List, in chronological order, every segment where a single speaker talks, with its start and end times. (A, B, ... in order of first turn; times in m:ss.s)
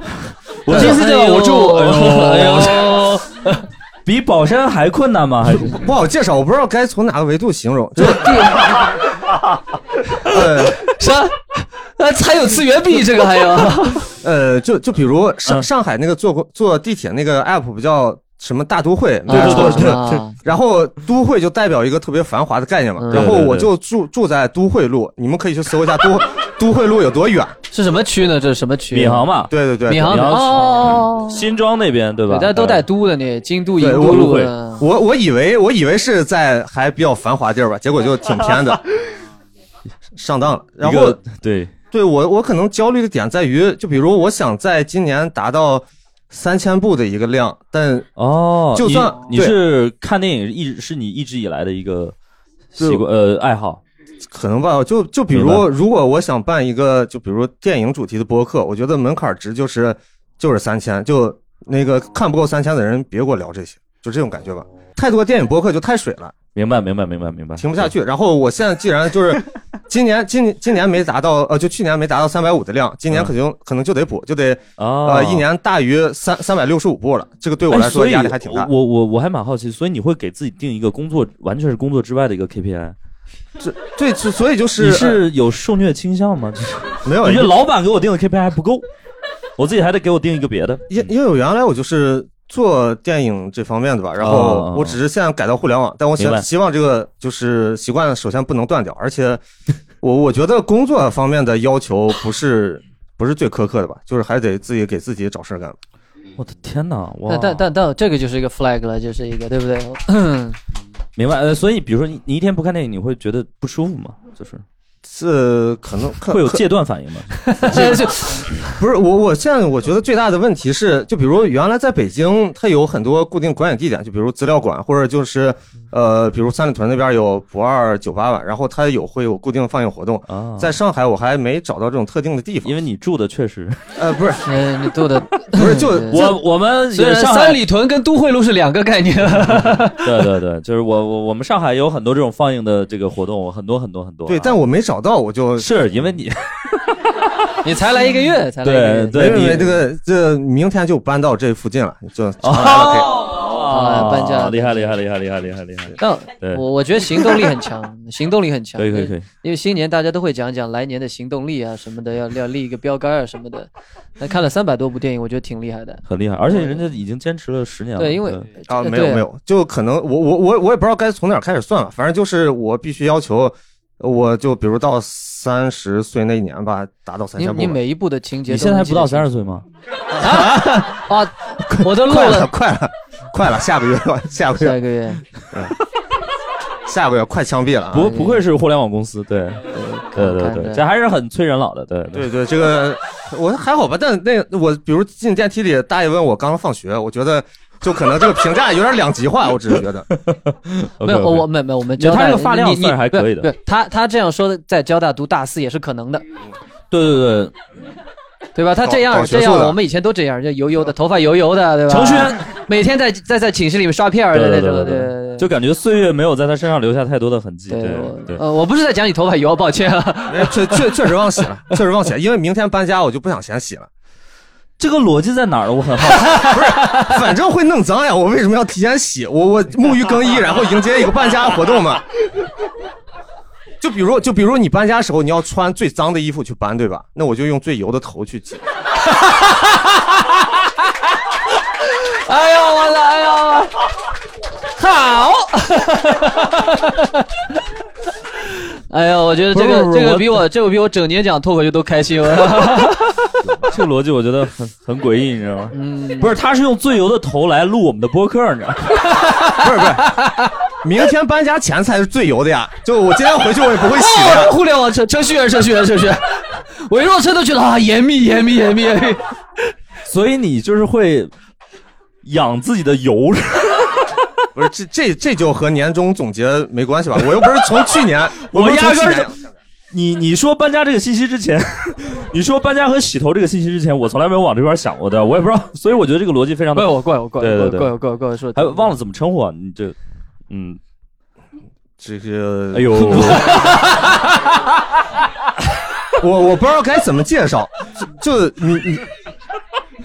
0:00.2-0:03.2 A
0:00.7-0:03.6 B
0:00.7-0:01.0 C
0:04.0-0:05.9 A
0:05.7-0:08.3 C
0:08.0-0:09.0 B
0:10.2-0:10.8 C
0:10.6-0:14.1 B
0:14.2-0:27.6 C
0:19.3-0:20.4 B
0:19.3-0:20.2 A
0:23.0-0:23.3 B
0:23.1-0:23.7 A
0:27.7-0:29.3 B
0:28.9-0:32.8 A
0:29.5-0:30.3 C
0:29.8-0:31.3 B
0:32.3-0:34.8 B
0:33.8-0:39.0 C
0:33.8-0:34.5 A
0:40.2-0:41.2 C
0:40.8-0:41.7 A
0:41.9-0:48.1 C
0:48.2-0:52.1 A
0:48.7-0:49.6 C
0:52.8-0:53.8 A
0:52.8-0:53.0 C
0:54.3-1:06.4 C
0:55.3-0:55.7 A
1:06.5-1:07.9 A
1:07.6-1:18.7 C
1:14.8-1:15.5 A
1:17.7-1:23.0 A
1:23.6-1:25.2 C
1:24.8-1:28.8 A
1:27.0-1:27.5 C
1:29.6-1:31.0 A
1:30.9-1:39.4 C
1:34.2-1:35.0 A
1:36.2-1:36.4 A
1:40.0-1:45.8 C
1:46.4-1:47.6 A
1:47.3-1:50.6 B
1:51.2-1:54.6 A
1:55.0-1:56.6 C
1:56.3-1:57.8 A
1:57.4-1:58.7 B
1:57.7-1:58.1 C
1:58.8-2:12.7 C
2:10.3-2:10.8 A
2:12.6-2:13.9 A
2:14.0-2:14.5 C
2:14.4-2:20.2 B
2:15.5-2:16.3 C
2:15.6-2:17.6 A
2:20.0-2:24.6 A
2:24.3-2:25.7 C
2:25.6-2:26.7 A
2:27.6-2:29.5 B
2:28.6-2:29.8 A
2:29.1-2:33.3 C
2:32.4-2:37.4 A
2:33.7-2:35.0 B
2:36.0-2:46.8 B
2:38.8-2:39.3 A
2:46.0-2:48.5 A
2:48.0-2:49.2 B
2:48.7-2:57.8 C
2:57.3-2:59.3 B
2:58.5-2:59.7 A
3:00.2-3:02.5 B
3:00.2-3:00.9 C
3:01.6-3:04.8 C
3:04.6-3:05.2 B
3:06.8-3:08.1 C
3:07.9-3:08.4 B
3:07.9-3:12.3 A
3:09.7-3:10.8 B
3:12.1-3:20.0 C
3:20.1-3:23.5 A
3:21.0-3:26.2 B
3:26.9-3:27.5 A
3:28.5-3:35.5 B
3:28.8-3:29.8 C
3:31.9-3:32.5 A
3:34.3-3:38.4 A
3:37.7-3:40.9 B
3:40.3-3:43.9 C
3:44.8-3:46.7 A
3:46.5-3:52.1 C
3:53.8-3:58.6 C
4:02.1-4:03.7 B
4:04.8-4:07.2 B
4:08.9-4:13.0 B
4:09.5-4:10.4 A
4:13.5-4:19.0 A
4:15.7-4:16.3 B
4:19.3-4:20.5 B
4:19.5-4:20.2 C
4:20.8-4:24.5 C
4:23.9-4:29.2 B
4:30.0-4:31.3 A
4:32.2-4:34.1 A
4:34.5-4:39.4 C
4:38.4-4:39.3 A
4:39.9-4:47.9 A
4:46.7-4:48.9 B
4:48.5-4:50.0 A
4:50.5-4:50.8 A
4:52.0-4:53.6 C
4:52.7-4:54.0 A
4:56.2-4:59.1 C